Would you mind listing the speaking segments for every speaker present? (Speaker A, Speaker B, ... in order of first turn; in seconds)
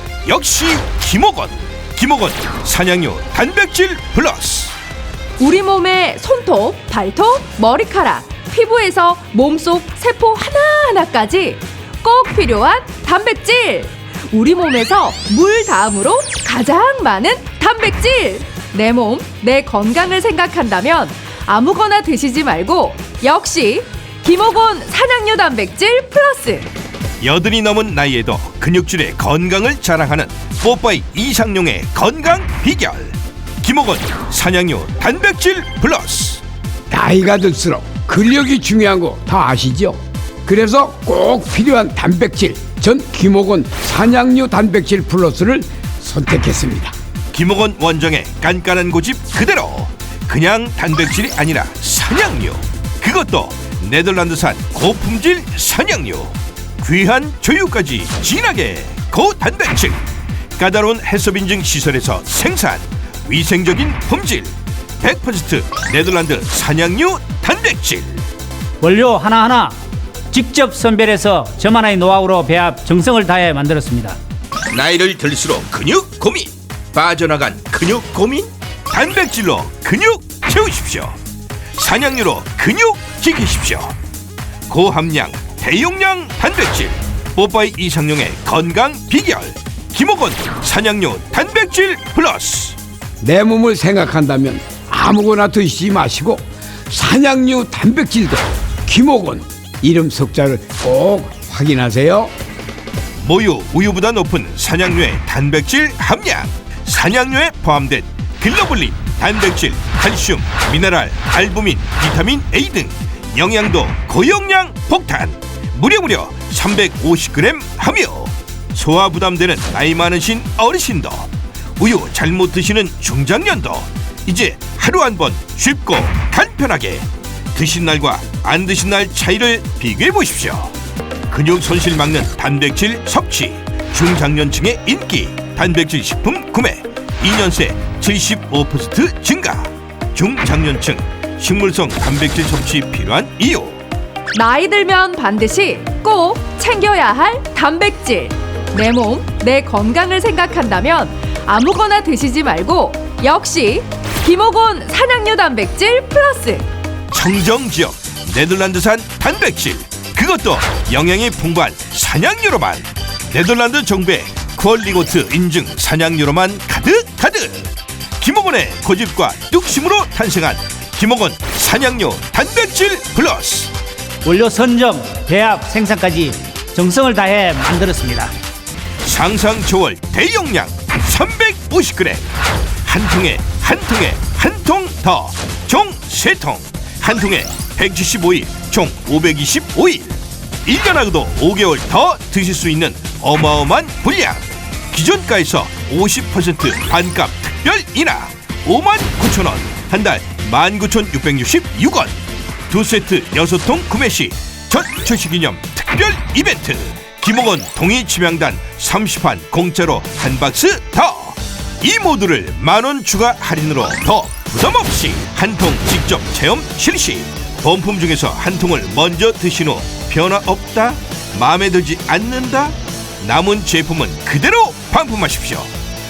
Speaker A: 0.2-4.7, 27.2-36.4, 47.3-60.0, 60.5-68.2, 74.7-81.2, 81.7-83.9, 84.7-92.8, 103.2-130.7, 131.3-143.8, 157.1-173.7, 179.0-182.3, 182.8-202.2, 202.7-225.7
Speaker B: 5.4-26.7, 144.3-156.7
Speaker C: 36.9-46.9, 93.2-102.3
Speaker D: 68.8-69.8, 70.3-74.2, 174.2-178.3